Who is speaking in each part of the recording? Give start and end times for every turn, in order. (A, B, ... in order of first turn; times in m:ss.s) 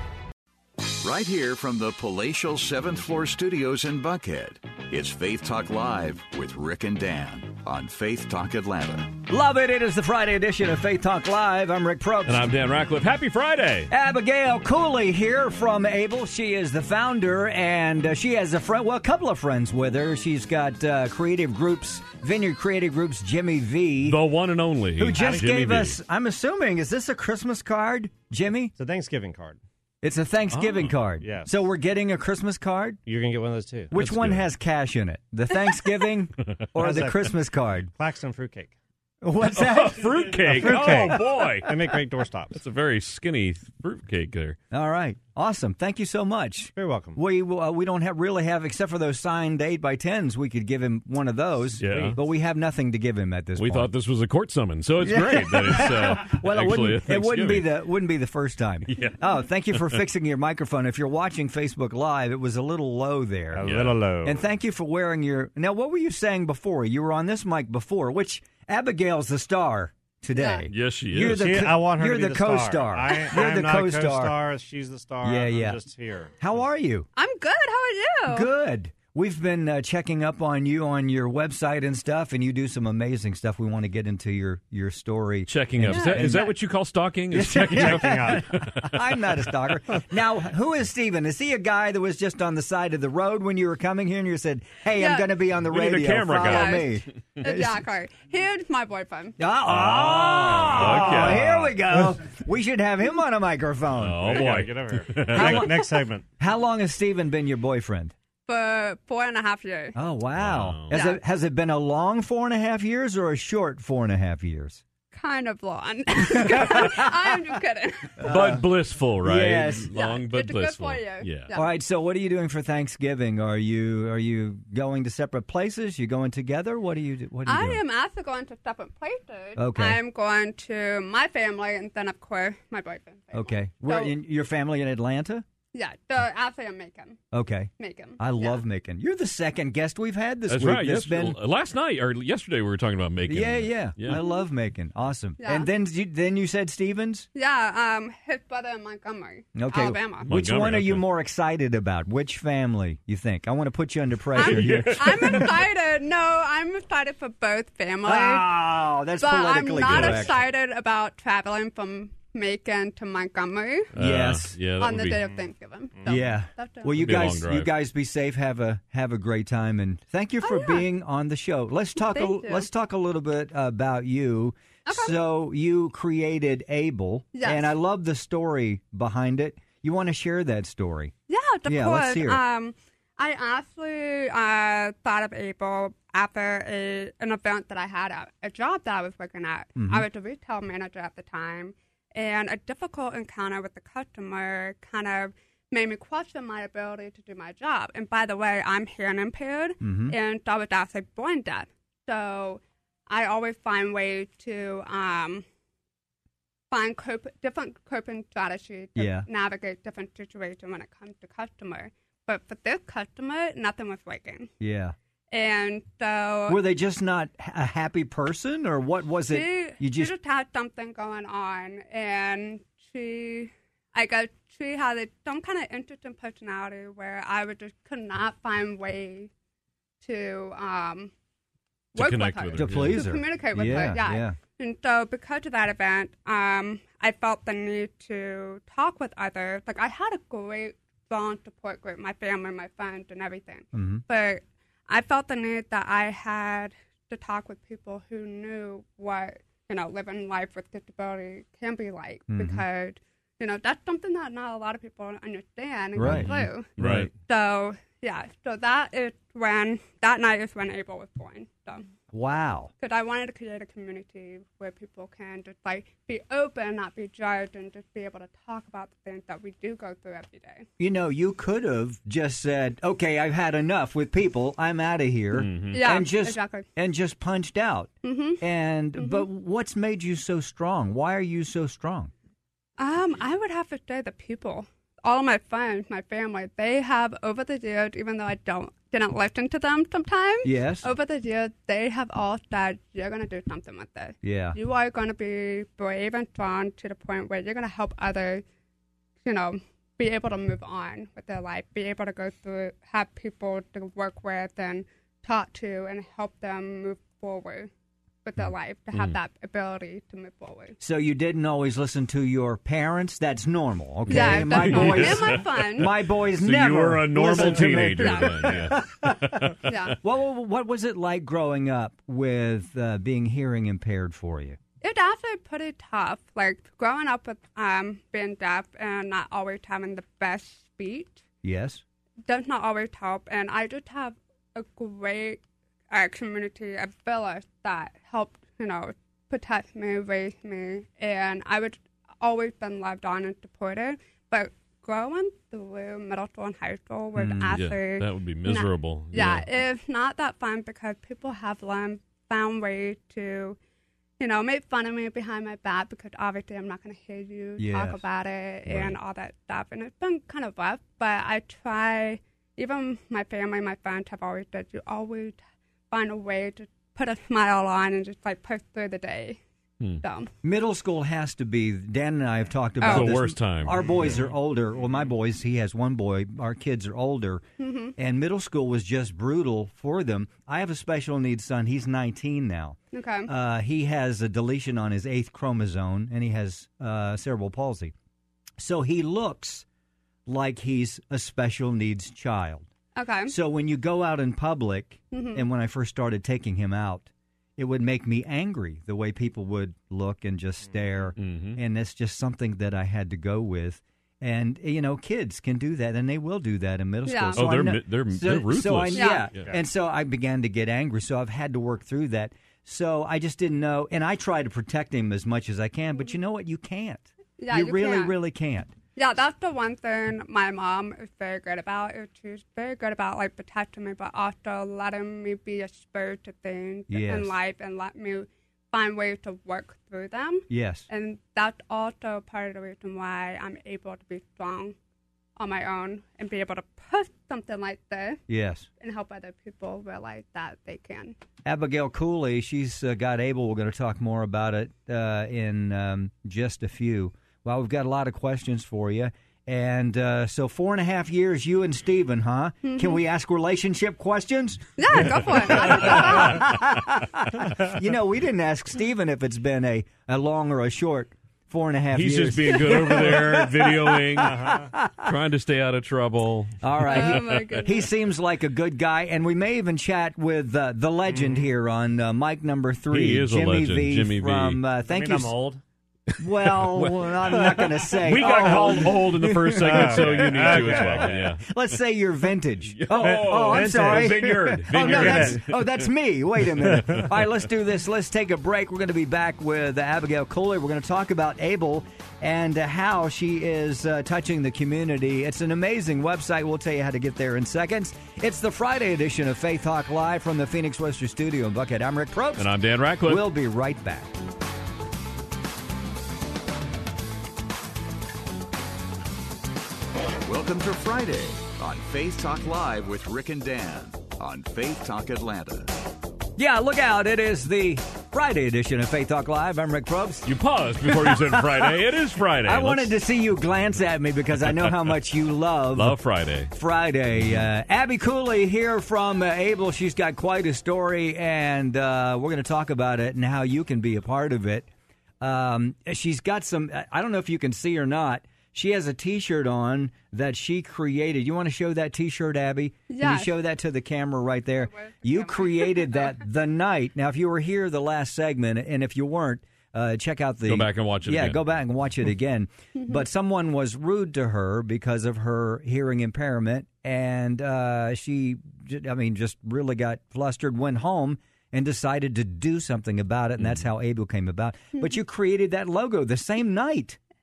0:01.0-0:09.2 A
0:09.3-0:12.5 B
0:12.2-0:13.9 C
0:13.9-0:24.2 B
0:24.0-0:26.0 C
0:25.0-0:28.7 B
0:25.1-0:25.5 D
0:28.8-0:29.6 D
0:30.0-0:33.0 B
0:30.5-0:31.0 C
0:31.2-0:31.5 D
0:33.1-0:33.9 D
0:33.9-0:37.9 B
0:33.9-0:34.5 C
0:36.8-0:37.4 D
0:37.9-0:38.8 D
0:39.2-0:41.7 B
0:39.5-0:41.8 C
0:40.5-0:42.6 D
0:42.6-0:44.6 C
0:44.7-0:53.9 B
0:46.8-0:47.2 D
0:51.8-0:52.2 C
0:51.8-0:52.2 D
0:53.6-0:57.7 C
0:55.0-1:14.4 B
0:58.9-0:59.2 C
1:03.5-1:04.4 D
1:03.6-1:04.0 C
1:10.4-1:10.7 E
1:10.7-1:11.7 C
1:11.3-1:16.4 D
1:15.2-1:15.8 B
1:16.4-1:17.1 B
1:17.2-1:18.5 E
1:18.3-1:26.5 B
1:25.5-1:29.0 C
1:25.9-1:26.5 E
1:27.3-1:37.8 B
1:27.4-1:28.5 D
1:35.0-1:35.3 E
1:35.6-1:37.0 C
1:36.3-1:39.4 E
1:39.4-1:44.4 B
1:39.7-1:41.8 C
1:44.0-1:45.8 C
1:44.2-1:46.2 D
1:45.3-1:48.1 B
1:48.5-1:50.0 E
1:50.0-1:54.8 B
1:50.4-1:51.0 C
1:50.9-1:51.2 E
1:55.1-1:58.3 E
1:56.4-1:57.0 B
1:58.2-1:58.6 B
1:58.2-2:01.5 C
1:59.2-1:59.9 B
1:59.9-2:01.8 E
2:01.5-2:07.8 B
2:07.5-2:14.2 E
2:09.6-2:10.0 B
2:13.3-2:15.4 B
2:15.7-2:17.2 E
2:17.3-2:21.4 B
2:17.8-2:18.6 E
2:20.5-2:24.2 C
2:23.3-2:27.3 B
2:24.1-2:24.4 E
2:25.4-2:25.7 E
2:27.4-2:30.3 E
2:29.6-2:35.5 B
2:30.2-2:31.0 C
2:34.4-2:38.6 E
2:34.4-2:35.5 C
2:38.0-2:40.4 B
2:39.2-2:43.9 E
2:39.9-2:40.2 C
2:43.9-2:45.2 C
2:43.9-2:44.6 B
2:44.8-2:47.2 E
2:46.1-3:01.2 B
2:47.0-2:47.7 C
2:50.4-2:50.9 E
2:52.0-2:52.7 E
2:54.9-2:55.2 E
2:57.3-2:57.7 E
3:01.3-3:25.4 E
3:01.7-3:02.4 B
3:09.8-3:10.1 B
3:19.8-3:20.2 B
3:26.7-3:34.5 E
3:29.0-3:29.3 B
3:34.6-3:35.0 B
3:35.3-3:36.6 E
3:36.5-3:40.1 B
3:39.3-3:49.3 E
3:50.0-3:51.1 E
3:52.0-3:53.1 C
3:52.0-4:21.9 E
3:52.6-3:54.4 B
4:03.7-4:04.0 B
4:12.3-4:12.6 B
4:16.0-4:17.1 B
4:16.0-4:17.1 C
4:22.1-4:22.7 B
4:22.8-4:30.7 E
4:30.8-4:42.1 B
4:35.3-4:35.8 C
4:35.7-4:36.7 E
4:38.0-4:38.4 E
4:39.0-4:39.3 E
4:42.8-4:58.4 E
4:50.4-4:50.9 B
4:54.2-4:54.6 B
4:59.2-5:07.7 E
5:08.2-5:10.8 E
5:10.8-5:24.6 B
5:14.1-5:19.7 C
5:14.1-5:15.9 E
5:18.0-5:18.5 E
5:19.6-5:20.0 E
5:24.8-5:31.2 E
5:31.4-5:31.8 B
5:32.2-5:53.6 E
5:47.2-5:47.6 B
5:47.5-5:49.5 C
5:54.2-6:05.4 E
5:57.6-5:58.0 B
5:58.7-5:59.0 C
6:05.9-6:09.4 E
6:10.0-6:10.3 E
6:10.4-6:17.4 B
6:12.8-6:13.2 E
6:12.8-6:14.2 C
6:13.8-6:14.3 D
6:17.6-6:17.9 E
6:18.0-6:27.9 B
6:22.9-6:23.3 E
6:28.6-6:29.6 B
6:30.3-6:32.7 B
6:33.0-6:33.3 E
6:33.3-6:58.7 B
6:35.1-6:35.4 E
6:41.2-6:41.6 C
6:47.1-6:47.4 E
6:47.4-6:49.2 C
6:48.9-6:49.3 E
6:57.4-6:58.2 E
6:59.0-7:14.8 E
7:06.9-7:07.4 B
7:10.5-7:10.9 B
7:15.4-7:18.2 E
7:18.3-7:18.7 B
7:18.8-7:21.2 E
7:21.4-7:45.1 B
7:32.6-7:33.0 E
7:34.8-7:36.5 E
7:41.9-7:47.4 C
7:44.2-7:44.7 D
7:46.6-7:55.4 B
7:46.9-7:47.9 E
7:51.1-7:51.5 D
7:52.9-7:54.6 C
7:54.8-7:55.6 D
7:56.1-8:01.6 C
7:56.2-8:22.5 B
7:57.4-7:59.0 D
7:59.6-8:01.4 D
8:02.7-8:05.9 C
8:03.0-8:05.5 D
8:06.6-8:07.1 C
8:06.6-8:07.1 D
8:22.4-8:23.3 C
8:23.0-8:24.2 B
8:30.2-8:35.8 A
8:36.4-8:40.3 B
8:40.2-8:43.0 C
8:40.8-8:41.8 B
8:42.4-8:46.0 B
8:45.7-8:46.5 C
8:46.5-8:54.7 B
8:55.2-9:27.0 B
9:02.9-9:03.4 E
9:04.6-9:06.1 E
9:10.4-9:11.6 C